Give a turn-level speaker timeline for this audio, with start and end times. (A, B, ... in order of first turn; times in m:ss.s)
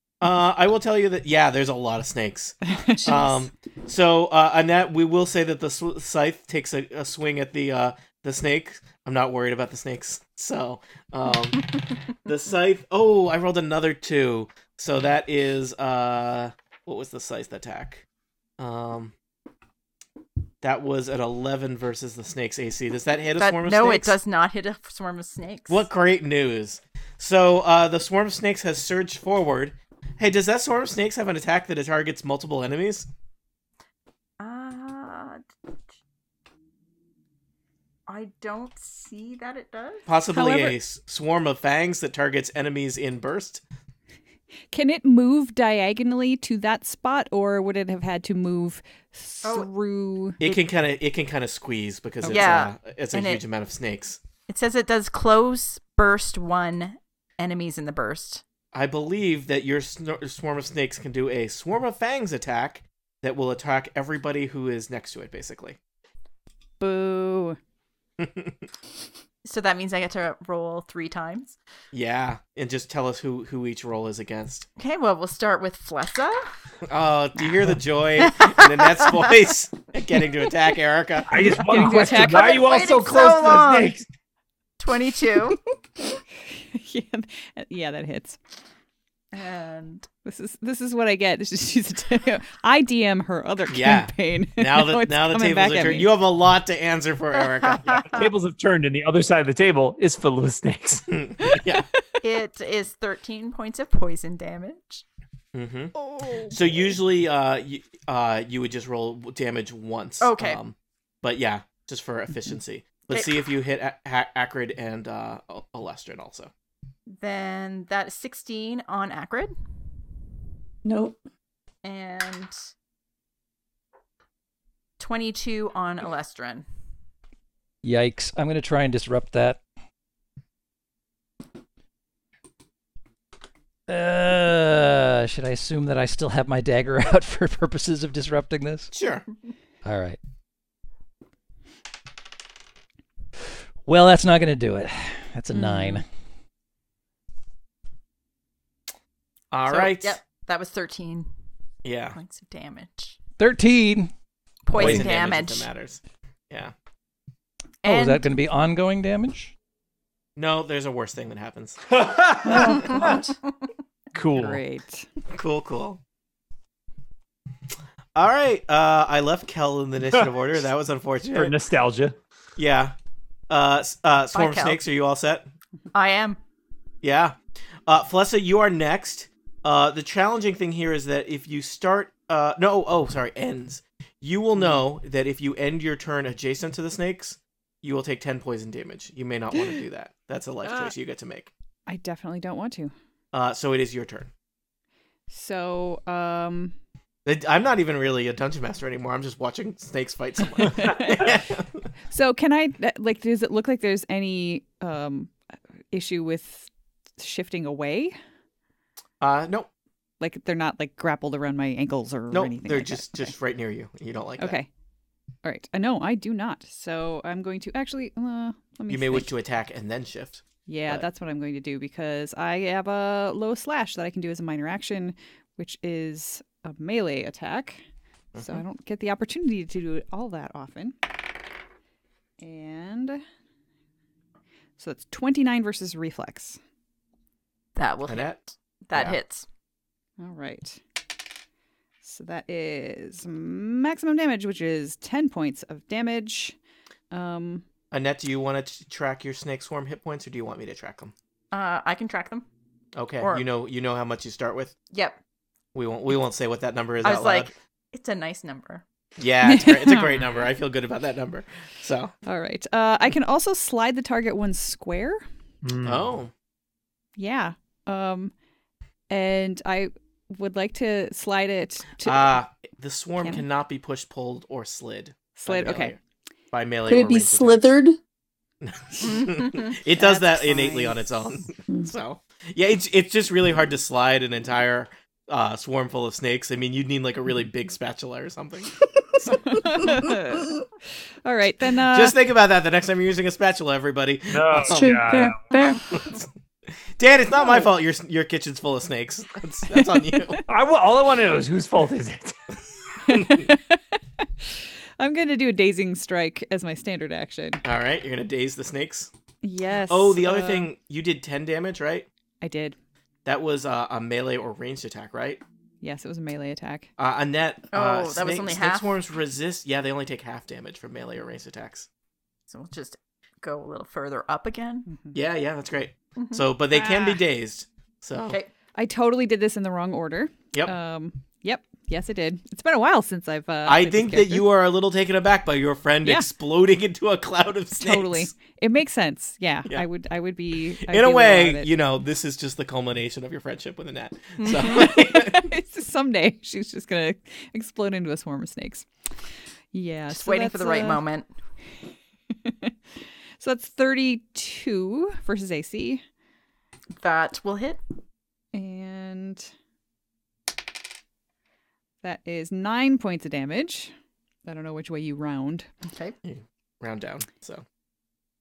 0:00.2-0:18.0 A
0:02.7-0:03.1 B
0:03.0-0:03.4 C
0:18.6-0:19.1 A
0:20.6-0:24.2 A
0:23.4-0:25.9 D
0:25.7-0:33.1 A
0:34.4-0:35.5 D
0:38.1-0:40.2 D
0:40.1-0:43.6 A
0:40.3-0:40.8 B
0:44.7-0:50.4 B
0:49.4-0:49.7 D
0:50.4-0:54.2 A
0:52.2-0:53.4 D
0:54.5-0:58.4 D
0:58.7-1:05.8 A
1:06.8-1:07.6 B
1:08.2-1:08.6 A
1:09.4-1:11.6 D
1:11.9-1:14.7 A
1:14.8-1:16.5 D
1:16.9-1:21.6 A
1:18.3-1:19.2 D
1:21.3-1:24.0 E
1:21.6-1:22.6 B
1:21.8-1:24.0 D
1:24.8-1:25.6 D
1:26.7-1:28.4 B
1:29.3-1:30.1 D
1:30.2-1:36.1 B
1:33.7-1:38.2 A
1:37.5-1:38.3 D
1:38.1-1:41.1 E
1:41.1-1:41.9 A
1:41.4-1:41.8 B
1:42.2-1:45.0 D
1:45.5-1:45.9 A
1:46.1-1:46.5 B
1:46.5-1:56.5 A
1:50.2-1:50.6 D
1:57.1-1:59.6 D
2:00.8-2:01.2 C
2:01.8-2:02.5 D
2:05.0-2:06.7 D
2:07.8-2:09.6 F
2:13.9-2:18.9 F
2:18.9-2:19.3 A
2:19.8-2:20.2 F
2:23.9-2:26.0 F
2:25.5-2:26.0 B
2:29.5-2:30.2 A
2:29.7-2:31.3 D
2:31.8-2:32.2 A
2:32.1-2:33.2 D
2:33.4-2:34.1 F
2:34.7-2:35.7 D
2:34.7-2:36.7 A
2:34.8-2:35.1 F
2:37.8-2:38.2 D
2:37.8-2:39.5 F
2:40.4-2:41.8 A
2:41.9-2:43.1 E
2:42.5-2:43.3 C
2:42.8-2:43.1 A
2:44.1-2:44.6 E
2:44.3-2:45.1 B
2:45.3-2:46.0 A
2:48.2-2:51.5 A
2:51.3-2:52.2 E
2:52.6-2:52.9 A
2:53.5-2:55.5 A
2:54.3-2:54.8 D
2:55.9-2:56.4 D
2:57.0-2:57.4 A
2:57.9-3:11.5 A
3:10.6-3:10.9 B
3:11.9-3:12.9 B
3:13.3-3:14.3 A
3:15.3-3:16.7 B
3:17.3-3:21.7 A
3:20.6-3:21.3 B
3:22.1-3:25.3 B
3:25.9-3:28.2 B
3:29.2-3:29.7 A
3:30.2-3:33.3 B
3:32.3-3:34.6 A
3:34.4-3:34.7 B
3:35.4-3:39.3 B
3:38.9-3:41.0 A
3:40.7-3:47.8 B
3:48.3-3:48.6 A
3:48.4-3:51.0 B
3:52.4-3:53.2 B
3:54.8-3:56.6 B
3:57.8-3:59.5 D
3:58.1-3:58.4 A
4:00.2-4:00.8 B
4:02.0-4:06.6 B
4:07.1-4:07.6 B
4:07.9-4:11.1 A
4:11.5-4:12.4 D
4:13.0-4:14.8 A
4:13.2-4:13.5 D
4:14.9-4:15.2 D
4:15.8-4:17.5 A
4:17.0-4:18.8 D
4:19.2-4:22.1 A
4:19.4-4:20.3 B
4:22.3-4:25.2 B
4:25.6-4:26.1 E
4:25.8-4:26.3 A
4:27.2-4:28.3 B
4:29.1-4:32.4 B
4:32.0-4:36.0 A
4:33.2-4:33.4 B
4:35.4-4:36.0 B
4:36.5-4:37.7 A
4:36.9-4:38.0 C
4:38.6-4:49.9 A
4:39.3-4:39.6 D
4:39.9-4:41.4 B
4:49.4-4:50.6 B
4:51.2-4:52.2 B
4:51.9-4:55.0 A
4:54.3-4:55.4 E
4:54.7-4:55.9 C
4:55.9-4:56.3 A
4:57.0-5:00.4 A
4:59.7-5:00.4 B
5:00.5-5:02.4 E
5:03.0-5:03.8 B
5:05.0-5:07.6 B
5:07.6-5:09.1 A
5:09.4-5:10.7 B
5:09.9-5:12.1 A
5:12.4-5:12.8 B
5:13.3-5:15.4 A
5:15.8-5:16.9 B
5:17.0-5:21.9 A
5:17.7-5:19.0 D
5:22.5-5:24.9 D
5:24.9-5:25.2 B
5:25.1-5:28.4 A
5:26.2-5:27.2 D
5:28.8-5:34.5 B
5:33.7-5:38.3 A
5:37.8-5:41.7 B
5:40.9-5:45.5 A
5:44.4-5:44.9 D
5:44.6-5:48.9 B
5:49.7-5:51.0 B
5:50.1-5:51.3 D
5:52.4-5:52.7 B
5:53.4-5:56.0 B
5:57.0-5:57.8 D
5:58.5-5:59.5 B
6:02.0-6:03.9 B
6:04.5-6:05.7 B
6:05.9-6:06.2 D
6:06.2-6:07.6 A